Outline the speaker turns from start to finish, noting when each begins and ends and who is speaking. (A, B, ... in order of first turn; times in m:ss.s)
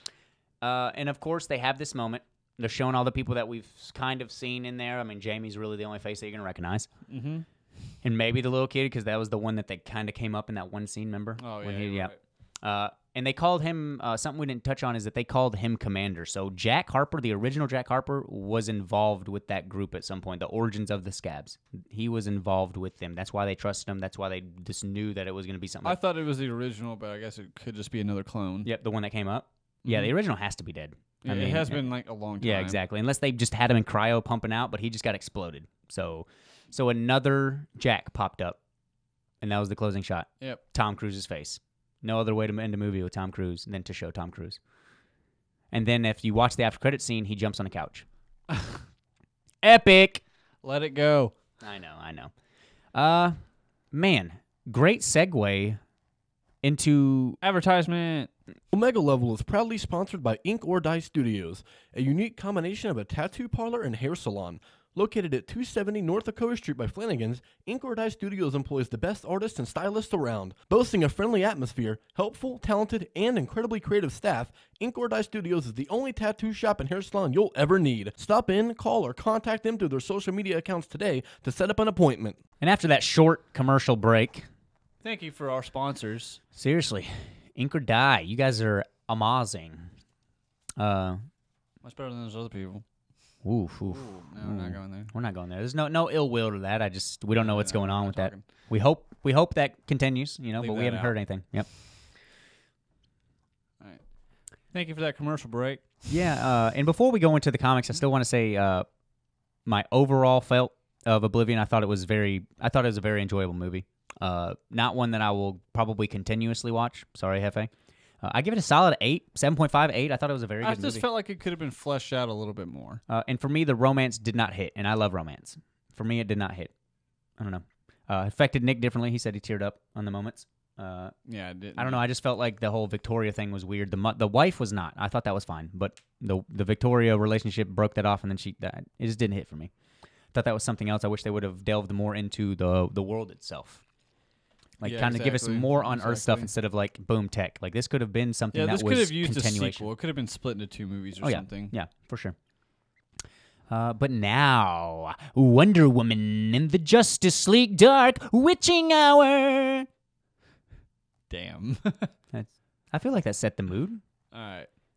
0:00.6-0:06.9 A
0:07.1-0:07.4 B
0:08.0-0:26.0 A
0:11.4-0:12.2 B
0:25.8-0:28.7 B
0:28.6-0:31.8 A
0:29.8-0:30.1 B
0:31.2-0:32.8 B
0:32.4-0:38.6 A
0:39.4-0:44.6 A
0:45.7-0:48.0 A
0:49.6-0:50.2 A
0:50.6-0:51.3 B
0:51.6-0:52.3 A
0:52.9-0:53.4 A
0:53.9-0:55.8 A
0:56.6-0:57.4 A
0:57.4-0:58.3 B
0:58.7-1:22.4 C
1:22.6-1:24.5 A
1:25.0-1:26.4 B
1:26.5-1:29.9 A
1:30.8-1:31.2 A
1:31.8-1:32.8 B
1:33.4-1:41.7 A
1:33.9-1:35.1 B
1:37.4-1:38.4 B
1:40.6-1:41.1 B
1:44.7-1:46.0 B
1:46.1-1:48.8 A
1:49.6-1:57.7 A
1:58.2-2:01.0 A
2:00.6-2:03.0 B
2:03.1-2:06.7 A
2:07.4-2:11.1 A
2:11.2-2:12.0 B
2:11.8-2:19.7 A
2:20.3-2:23.8 A
2:24.8-2:29.9 A
2:24.8-2:26.5 B
2:28.5-2:31.7 B
2:31.2-2:32.4 A
2:33.7-2:39.9 A
2:41.3-2:42.1 B
2:42.3-2:44.0 A
2:44.3-2:44.7 B